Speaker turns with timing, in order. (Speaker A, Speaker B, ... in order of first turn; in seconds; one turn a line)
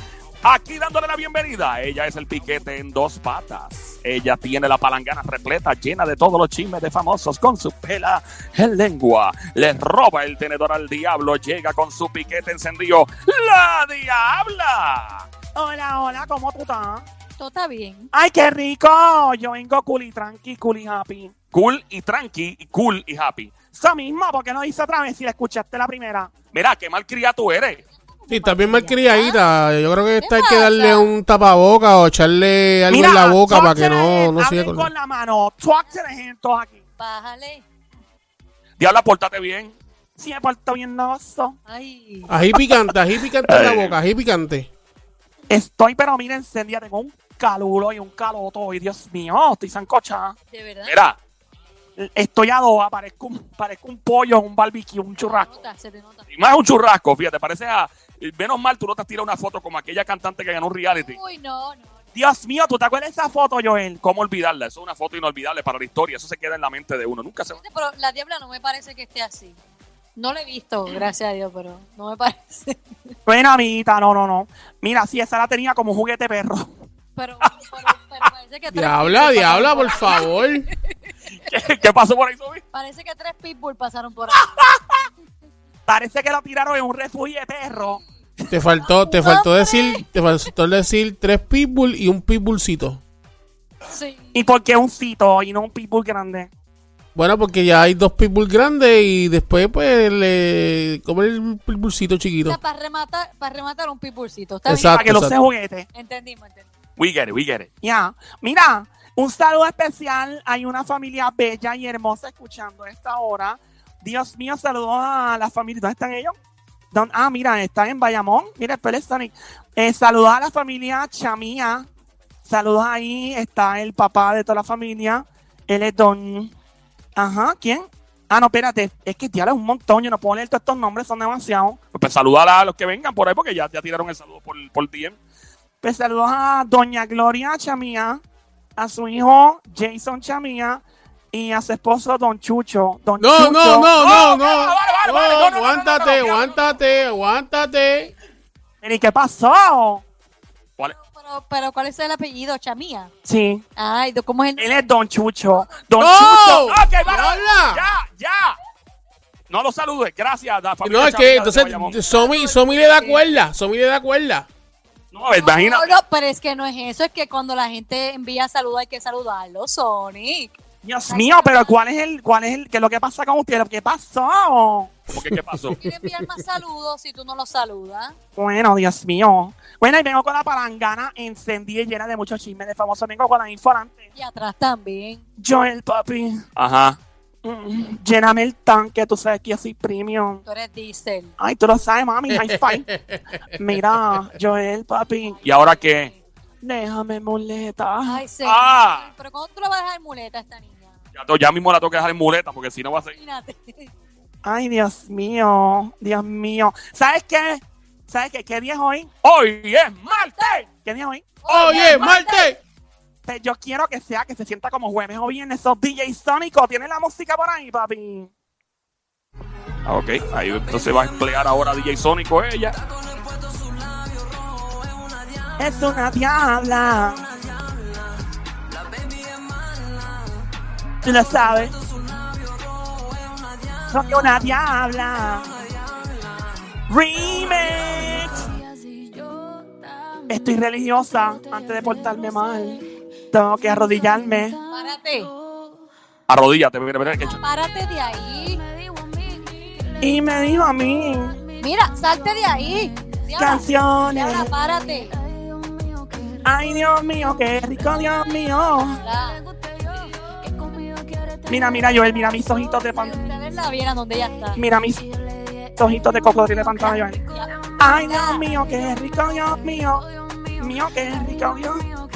Speaker A: 0.4-15.3
Speaker B: 15.6-17.1
Speaker C: 17.4-18.1
Speaker B: 18.1-21.3
Speaker A: 21.5-23.5
Speaker B: 23.7-26.3
Speaker A: 26.5-27.8
Speaker C: 28.1-29.4
Speaker D: 28.3-34.9
Speaker C: 30.2-31.2
Speaker B: 32.9-36.8
Speaker C: 37.0-37.6
Speaker A: 38.8-39.8
Speaker B: 40.2-41.6
Speaker C: 41.7-42.4
Speaker D: 42.3-44.7
Speaker A: 43.5-44.0
Speaker B: 45.5-50.4
Speaker C: 50.5-51.0
Speaker A: 50.9-51.2
Speaker B: 52.0-55.7
Speaker C: 55.2-56.2
Speaker A: 56.3-61.2
Speaker C: 61.0-62.0
Speaker B: 62.1-64.0
Speaker A: 64.0-67.6
Speaker C: 67.5-69.6
Speaker C: 70.2-73.0
Speaker B: 73.3-76.7
Speaker C: 77.2-80.9
Speaker D: 78.7-80.7
Speaker A: 81.5-82.6
Speaker C: 82.7-84.5
Speaker B: 85.9-88.0
Speaker C: 87.7-88.0
Speaker D: 88.5-93.0
Speaker C: 88.8-90.0
Speaker C: 93.9-94.5
Speaker B: 94.3-96.5
Speaker D: 97.2-102.6
Speaker C: 102.4-105.2
Speaker D: 104.7-105.4
Speaker B: 104.9-105.9
Speaker C: 105.9-106.7
Speaker A: 107.0-107.7
Speaker B: 107.8-116.3
Speaker B: 116.9-121.9
Speaker B: 122.5-126.5
Speaker B: 127.2-131.8
Speaker A: 131.9-135.2
Speaker B: 135.8-138.2
Speaker B: 138.8-144.2
Speaker D: 143.2-148.1
Speaker A: 143.9-146.7
Speaker B: 148.8-150.1
Speaker C: 150.9-153.1
Speaker B: 153.2-153.6
Speaker C: 153.8-154.8
Speaker B: 154.6-157.0
Speaker D: 156.0-157.8
Speaker A: 156.7-158.6
Speaker A: 159.5-162.0
Speaker D: 160.8-164.5
Speaker C: 161.9-163.3
Speaker A: 165.1-166.0
Speaker C: 165.4-170.6
Speaker B: 170.8-174.9
Speaker C: 171.1-171.8
Speaker D: 175.1-176.3
Speaker A: 175.1-175.8
Speaker C: 175.8-178.2
Speaker B: 178.4-184.1
Speaker C: 184.2-185.2
Speaker B: 185.4-186.4
Speaker A: 186.6-187.0
Speaker B: 187.4-190.4
Speaker C: 190.5-191.3
Speaker B: 191.4-192.9
Speaker D: 192.3-193.2
Speaker B: 193.6-195.4
Speaker C: 195.3-196.2
Speaker A: 195.4-196.1
Speaker B: 196.6-198.2
Speaker C: 198.1-200.9
Speaker A: 198.4-199.1
Speaker A: 201.2-203.2
Speaker C: 203.1-203.9
Speaker B: 204.4-209.1
Speaker A: 209.2-210.6
Speaker C: 210.1-210.6
Speaker B: 210.7-212.1
Speaker C: 211.4-212.5
Speaker D: 211.5-212.6
Speaker B: 213.3-218.3
Speaker A: 219.9-222.8
Speaker B: 225.6-227.2
Speaker B: 231.0-231.7
Speaker B: 233.9-235.5
Speaker B: 236.9-238.5
Speaker B: 240.3-242.8
Speaker B: 243.3-244.6
Speaker C: 244.7-245.3
Speaker A: 246.3-247.4
Speaker C: 247.2-248.6
Speaker B: 250.0-251.4
Speaker C: 251.6-255.2
Speaker B: 253.4-254.5
Speaker B: 256.4-259.0
Speaker C: 258.9-260.1
Speaker B: 261.5-263.2
Speaker C: 262.9-264.6
Speaker B: 264.6-265.1
Speaker B: 265.7-267.2
Speaker C: 266.9-268.5
Speaker B: 267.8-270.1
Speaker B: 270.6-271.8